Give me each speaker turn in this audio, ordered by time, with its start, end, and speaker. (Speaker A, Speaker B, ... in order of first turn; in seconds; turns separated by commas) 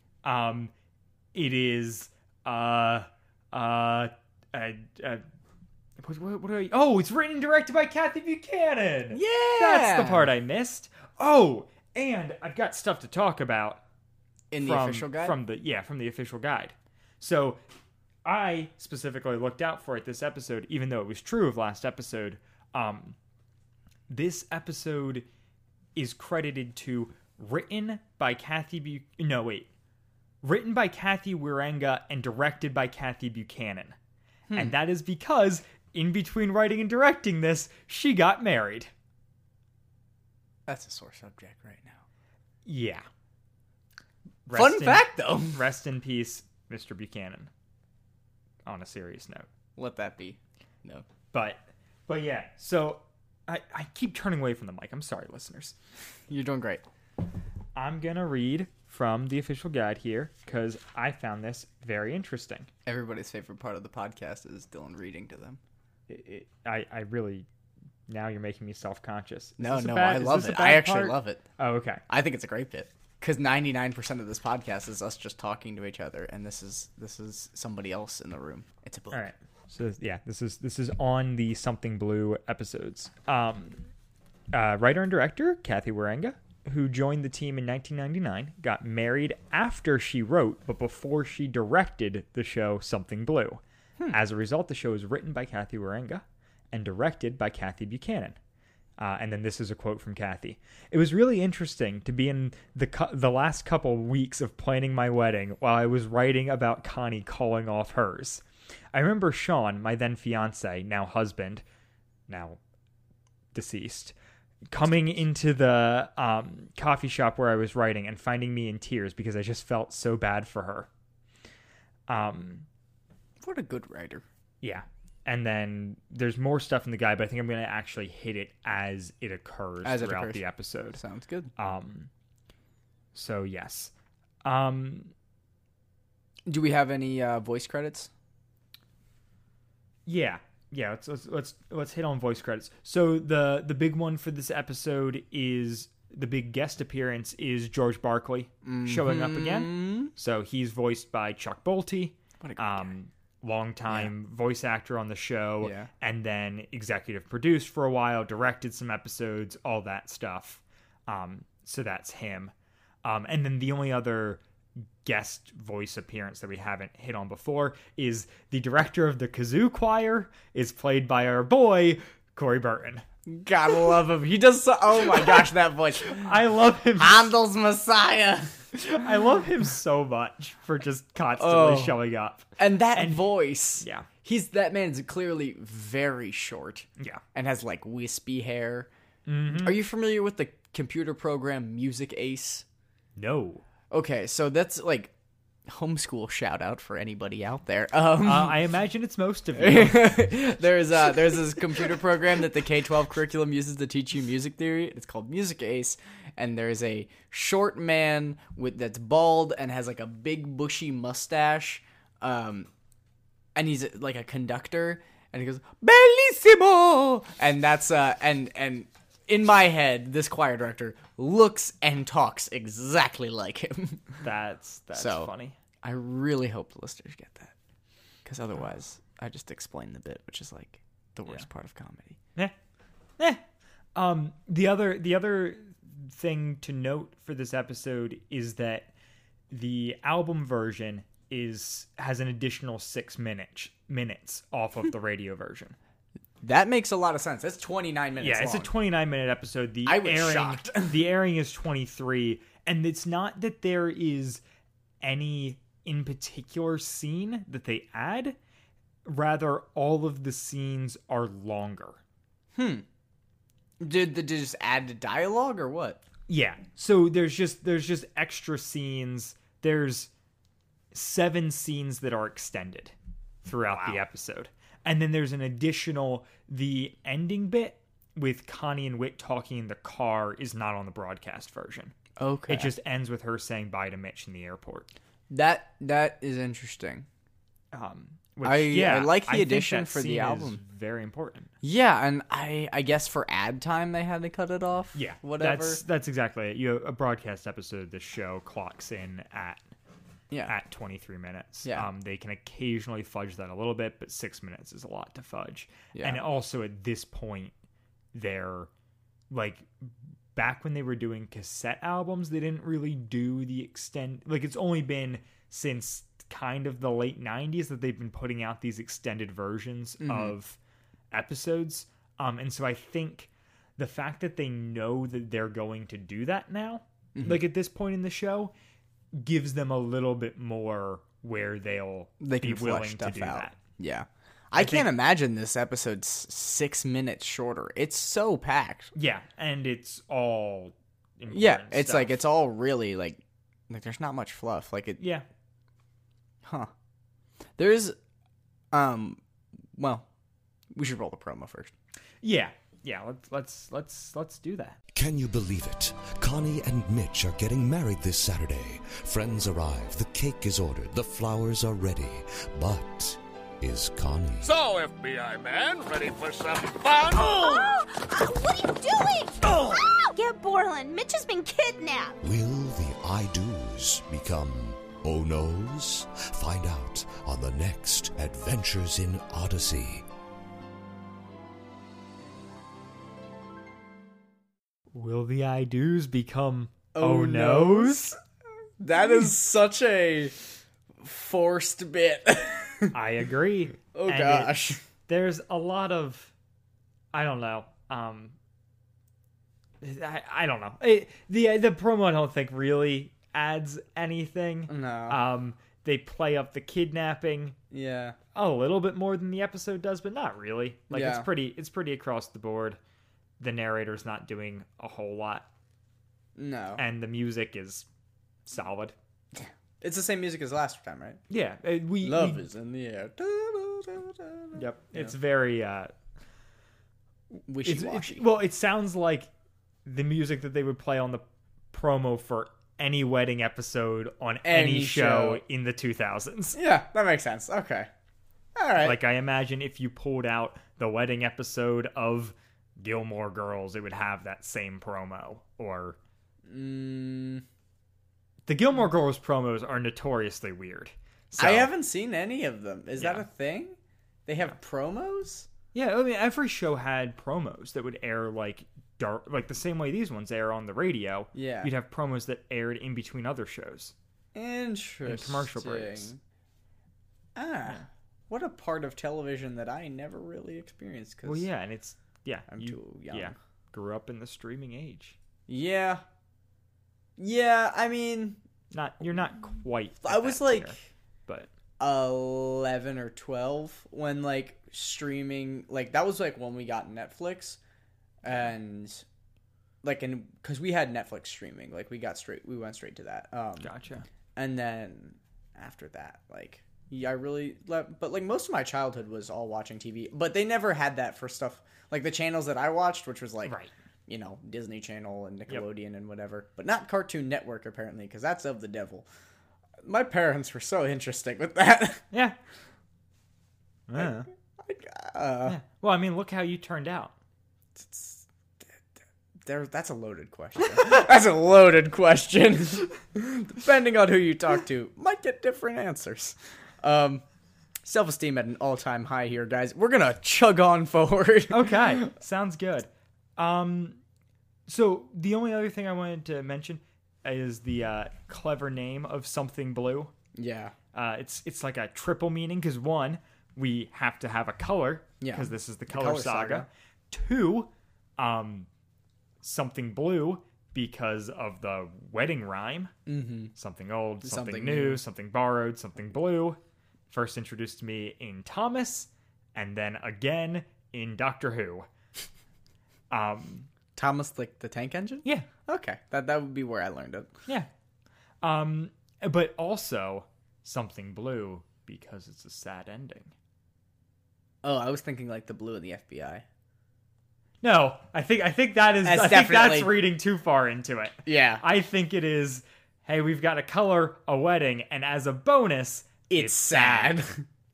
Speaker A: 0.2-0.7, Speaker A: 1.3-5.2, Speaker A: 6.0-13.8, Speaker B: 9.1-10.3, Speaker B: 14.5-15.4, Speaker A: 14.6-17.6, Speaker A: 18.2-23.2, Speaker A: 24.1-25.3, Speaker A: 25.9-29.7, Speaker A: 30.4-34.0, Speaker B: 34.5-34.8, Speaker A: 34.5-38.9, Speaker B: 40.7-42.0, Speaker A: 42.7-43.0, Speaker A: 44.5-47.5, Speaker B: 44.5-45.6, Speaker A: 48.6-49.5, Speaker B: 49.8-51.0, Speaker A: 51.3-55.8, Speaker B: 56.3-56.8, Speaker A: 57.8-62.7, Speaker B: 62.9-65.6, Speaker A: 66.1-67.5, Speaker A: 68.1-72.0, Speaker B: 69.6-71.4, Speaker B: 72.1-79.2, Speaker A: 79.1-83.8, Speaker A: 84.5-98.4, Speaker A: 99.0-111.6, Speaker A: 112.3-112.6, Speaker A: 113.5-114.2, Speaker A: 114.7-120.9, Speaker A: 122.1-122.7, Speaker B: 123.4-124.2, Speaker A: 124.6-131.0, Speaker B: 129.8-131.5, Speaker A: 131.6-132.1, Speaker A: 133.1-133.9, Speaker A: 134.4-135.1, Speaker B: 136.5-138.1, Speaker A: 140.1-162.5, Speaker B: 148.6-150.1, Speaker B: 152.4-152.9, Speaker B: 155.6-155.9, Speaker A: 163.0-164.4, Speaker A: 165.0-173.0, Speaker B: 173.3-176.3, Speaker A: 175.1-175.5, Speaker A: 176.0-177.3, Speaker B: 177.0-178.6, Speaker A: 178.7-183.3, Speaker B: 181.4-182.0, Speaker B: 182.6-188.9, Speaker A: 183.8-184.1, Speaker A: 189.3-189.8, Speaker B: 189.5-192.7, Speaker A: 193.2-193.6, Speaker B: 193.9-195.1, Speaker B: 195.7-198.6, Speaker A: 198.2-200.3, Speaker B: 199.5-212.7, Speaker B: 213.6-224.2, Speaker A: 224.2-225.6, Speaker B: 224.9-227.5, Speaker B: 228.2-232.2, Speaker A: 233.9-238.9, Speaker A: 239.5-245.8, Speaker B: 246.4-248.7, Speaker A: 248.2-254.4, Speaker B: 249.9-251.1, Speaker A: 255.0-258.4, Speaker A: 259.1-262.0, Speaker B: 262.6-262.9, Speaker B: 263.8-266.0, Speaker A: 266.3-270.1, Speaker A: 270.9-281.9, Speaker B: 273.7-274.0, Speaker B: 282.2-282.7, Speaker A: 282.5-284.9, Speaker B: 285.3-287.1, Speaker A: 287.7-291.5, Speaker B: 288.4-290.6, Speaker B: 291.6-295.8, Speaker A: 294.9-299.6, Speaker A: 300.5-307.6, Speaker B: 305.9-306.2, Speaker A: 308.1-308.7, Speaker A: 309.3-320.6, Speaker B: 320.0-320.3, Speaker A: 321.1-328.5, Speaker B: 327.1-327.4, Speaker A: 329.1-333.6, Speaker B: 332.2-338.9, Speaker A: 334.6-334.9, Speaker A: 338.9-342.1, Speaker B: 341.3-345.0, Speaker A: 345.0-345.3, Speaker B: 346.4-346.7, Speaker B: 347.6-348.0, Speaker B: 348.7-349.2, Speaker B: 349.8-350.1, Speaker B: 350.7-351.7, Speaker A: 352.2-354.8, Speaker C: 354.9-364.5, Speaker D: 364.4-367.8, Speaker E: 367.2-372.1, Speaker C: 372.2-380.1, Speaker A: 384.9-388.1, Speaker B: 386.9-388.2, Speaker B: 388.8-390.4, Speaker B: 391.0-392.9, Speaker A: 392.9-396.3, Speaker B: 393.9-394.8, Speaker A: 397.1-398.4, Speaker A: 399.8-407.6, Speaker B: 404.7-405.2, Speaker B: 407.7-408.2, Speaker A: 408.4-412.8, Speaker B: 410.9-411.3, Speaker A: 413.4-415.5, Speaker B: 416.4-416.8, Speaker A: 416.8-417.9, Speaker A: 418.5-418.9, Speaker B: 419.3-421.2, Speaker A: 421.3-422.4, Speaker B: 422.0-425.1, Speaker A: 424.6-425.9, Speaker A: 427.4-429.3, Speaker B: 427.5-428.2, Speaker A: 429.9-436.6, Speaker B: 434.4-435.4, Speaker B: 436.6-437.9, Speaker B: 438.6-439.0, Speaker A: 438.8-446.0, Speaker B: 446.5-447.4, Speaker A: 448.5-451.7, Speaker B: 451.4-455.5, Speaker A: 453.0-453.2, Speaker A: 455.7-463.9, Speaker B: 461.3-461.7, Speaker B: 464.3-466.2, Speaker A: 465.1-466.1, Speaker B: 467.4-471.5, Speaker A: 471.3-475.2, Speaker B: 472.5-473.3, Speaker B: 475.5-476.0, Speaker B: 477.2-478.4, Speaker A: 478.7-481.5, Speaker B: 480.0-480.8, Speaker B: 481.8-487.6, Speaker B: 488.2-489.1, Speaker B: 489.8-493.7, Speaker A: 493.6-494.1, Speaker B: 494.4-503.6, Speaker A: 503.5-503.7, Speaker B: 504.1-509.1, Speaker B: 509.8-512.0, Speaker A: 513.9-514.3, Speaker B: 514.0-515.6, Speaker A: 515.5-517.1, Speaker B: 517.8-518.7, Speaker B: 519.4-527.2, Speaker B: 527.8-532.1, Speaker A: 531.5-534.0, Speaker A: 534.7-540.1, Speaker B: 540.3-540.7, Speaker A: 540.9-548.7, Speaker B: 545.2-546.7, Speaker A: 549.4-552.9, Speaker B: 553.1-553.5, Speaker A: 553.6-556.6, Speaker B: 554.2-555.0, Speaker A: 557.1-561.9, Speaker A: 563.1-563.7, Speaker B: 564.0-567.3, Speaker A: 568.4-573.3, Speaker B: 574.6-576.4, Speaker A: 577.6-587.2, Speaker B: 579.0-580.0, Speaker B: 581.2-581.6, Speaker B: 586.3-587.4